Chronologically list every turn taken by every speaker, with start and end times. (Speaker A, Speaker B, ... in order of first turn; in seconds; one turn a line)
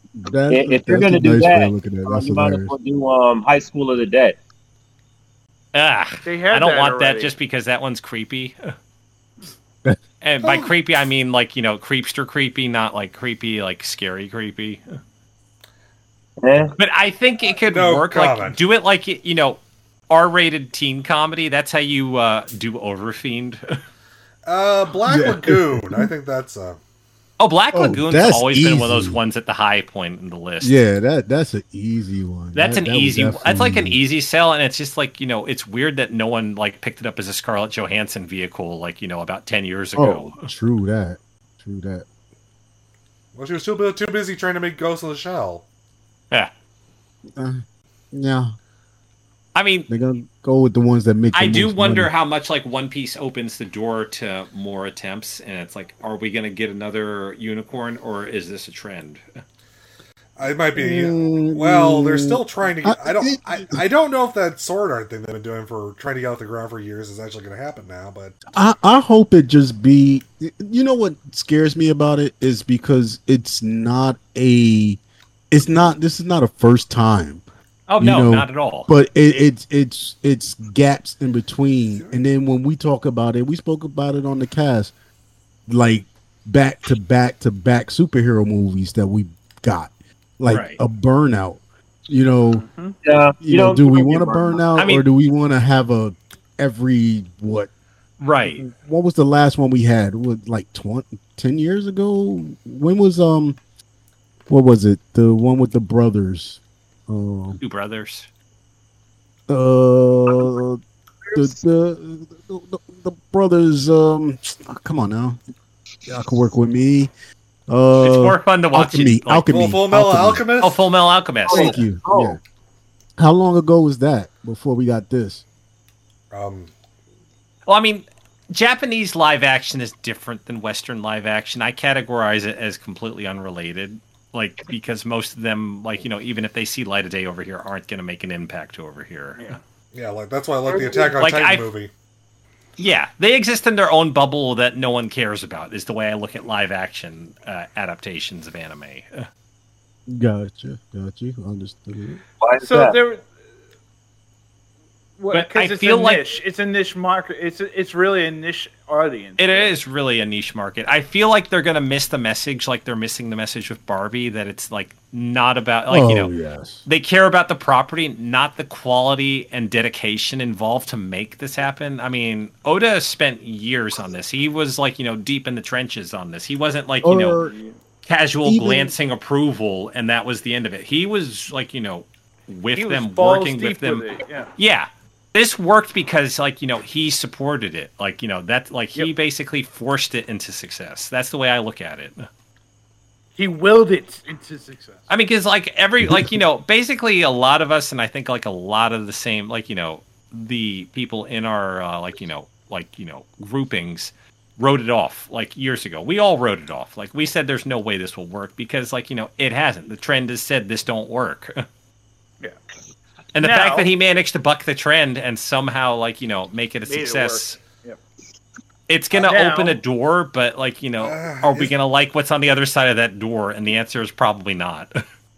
Speaker A: 0.2-2.7
Speaker B: 0.5-4.4
Speaker C: 5.7-8.6
Speaker D: 6.2-7.3
Speaker C: 10.2-14.8
Speaker E: 10.4-10.7
Speaker B: 16.4-16.7
Speaker C: 16.8-23.6
Speaker E: 17.7-18.6
Speaker E: 24.5-26.8
Speaker A: 25.1-26.1
Speaker C: 27.4-30.8
Speaker A: 27.7-29.2
Speaker A: 30.6-34.0
Speaker C: 32.5-40.5
Speaker A: 40.0-42.1
Speaker E: 43.4-45.6
Speaker A: 47.4-48.5
Speaker C: 49.5-49.9
Speaker A: 49.9-52.1
Speaker C: 51.3-59.2
Speaker E: 60.4-68.4
Speaker A: 60.8-63.8
Speaker A: 68.5-75.0
Speaker A: 75.5-77.4
Speaker C: 77.9-78.9
Speaker A: 78.0-84.9
Speaker A: 85.7-92.7
Speaker C: 90.5-90.8
Speaker D: 92.5-93.0
Speaker B: 93.0-94.6
Speaker A: 93.4-97.7
Speaker C: 94.8-95.0
Speaker C: 98.2-98.7
Speaker A: 98.7-103.6
Speaker A: 104.5-107.6
Speaker C: 107.6-108.3
Speaker A: 109.5-110.8
Speaker A: 111.3-115.4
Speaker A: 116.1-117.1
Speaker A: 117.7-120.5
Speaker C: 118.0-119.5
Speaker E: 119.5-120.8
Speaker C: 120.6-121.8
Speaker B: 121.5-122.4
Speaker A: 121.5-122.4
Speaker A: 123.2-125.4
Speaker E: 126.3-126.7
Speaker C: 127.7-139.6
Speaker E: 139.9-141.9
Speaker C: 141.2-141.7
Speaker C: 142.8-149.3
Speaker A: 150.1-152.2
Speaker B: 152.4-153.0
Speaker D: 152.6-153.2
Speaker D: 155.2-159.7
Speaker C: 155.3-156.2
Speaker C: 159.4-166.3
Speaker A: 165.9-166.8
Speaker C: 166.8-177.4
Speaker A: 177.0-177.5
Speaker C: 178.1-192.3
Speaker A: 178.4-178.9
Speaker D: 182.8-184.5
Speaker D: 193.4-195.1
Speaker C: 195.1-211.7
Speaker A: 196.1-196.3
Speaker C: 213.3-217.6
Speaker D: 213.4-213.9
Speaker D: 216.9-218.0
Speaker C: 218.9-225.0
Speaker D: 219.1-219.8
Speaker E: 221.0-221.7